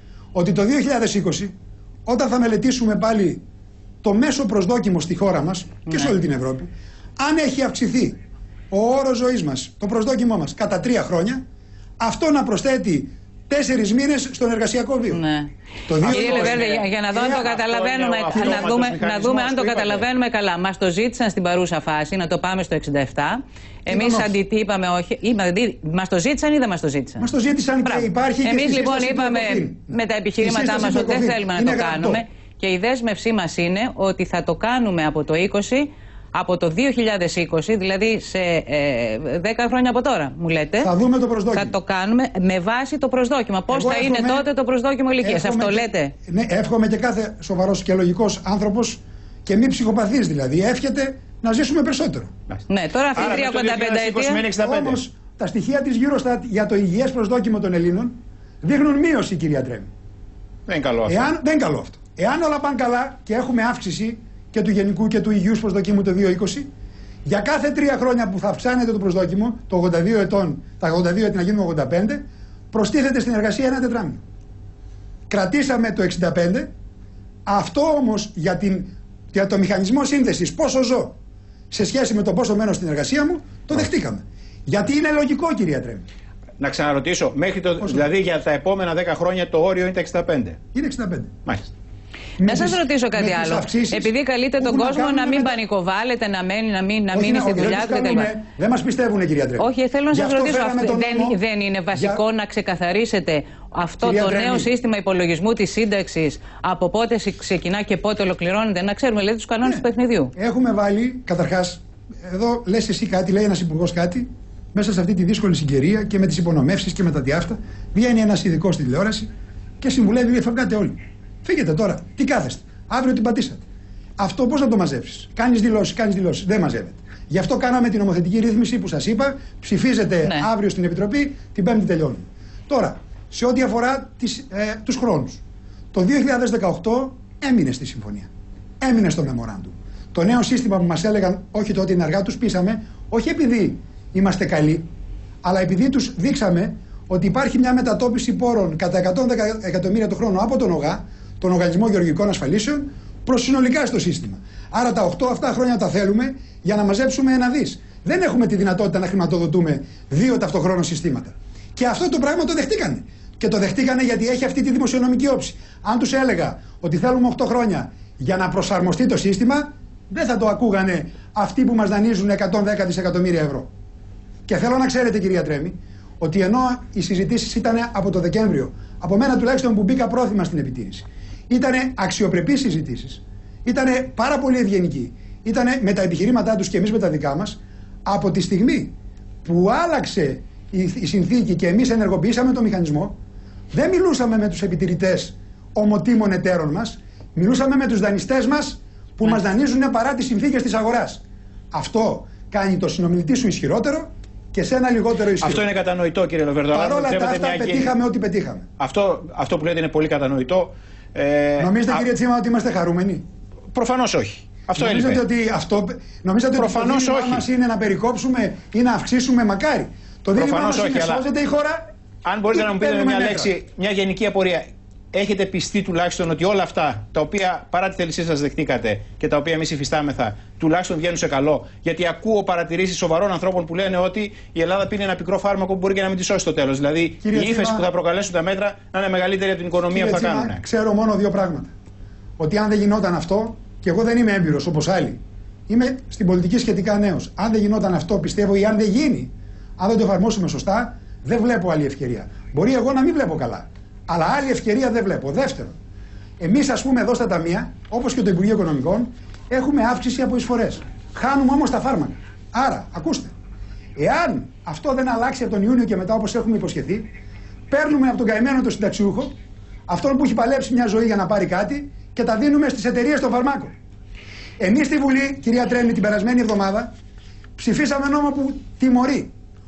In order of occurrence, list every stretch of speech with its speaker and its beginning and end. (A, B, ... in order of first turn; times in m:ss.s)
0:00.3-0:01.5 A
0:02.0-0:03.4 A
0:04.0-0:08.2 A
0:08.7-0:11.4 A
0:12.0-0:15.2 A
0:15.1-0:15.5 B
0:15.9-0:16.6 A
0:16.0-0:20.0 C
0:16.0-0:27.3 B
0:17.1-0:17.4 A
0:18.4-0:18.6 A
0:23.9-0:24.3 A
0:27.2-0:32.2 A
0:27.8-0:40.9 B
0:40.8-0:41.7 A
0:41.5-0:46.1 B
0:43.7-0:44.5 A
0:45.2-0:52.3 A
0:52.7-0:54.4 B
0:53.1-0:55.0 C
0:54.6-0:59.9 A
1:00.7-1:01.3 C
1:01.0-1:06.7 A
1:07.2-1:14.2 A
1:15.3-1:16.7 A
1:17.4-1:21.1 A
1:21.7-1:26.0 A
1:26.6-1:30.6 C
1:30.7-1:31.3 A
1:32.4-1:35.6 A
1:32.4-1:38.3 B
1:37.1-1:41.4 A
1:39.6-1:50.3 B
1:41.9-1:42.2 A
1:44.0-1:44.7 A
1:50.4-1:59.3 A
1:59.8-2:03.6 A
2:04.2-2:15.4 A
2:15.9-2:18.3 A
2:18.8-2:24.9 A
2:25.4-2:53.7 A
2:54.5-3:08.9 A
3:09.4-3:13.2 A
3:13.7-3:21.2 A
3:21.7-3:25.6 A
3:25.4-3:27.9 C
3:26.7-3:28.6 A
3:28.8-3:32.0 C
3:31.6-3:33.2 A
3:33.7-3:35.2 C
3:34.8-3:41.8 A
3:36.6-3:37.4 C
3:40.3-3:41.2 C
3:42.2-4:00.6 C
3:42.5-3:43.5 A
3:57.2-3:57.8 A
3:59.9-4:01.7 A
4:02.4-4:15.8 A
4:16.4-4:23.3 A
4:24.0-4:27.1 A
4:27.7-4:29.3 A
4:29.9-4:33.7 A
4:34.6-4:36.9 A
4:37.6-4:39.3 A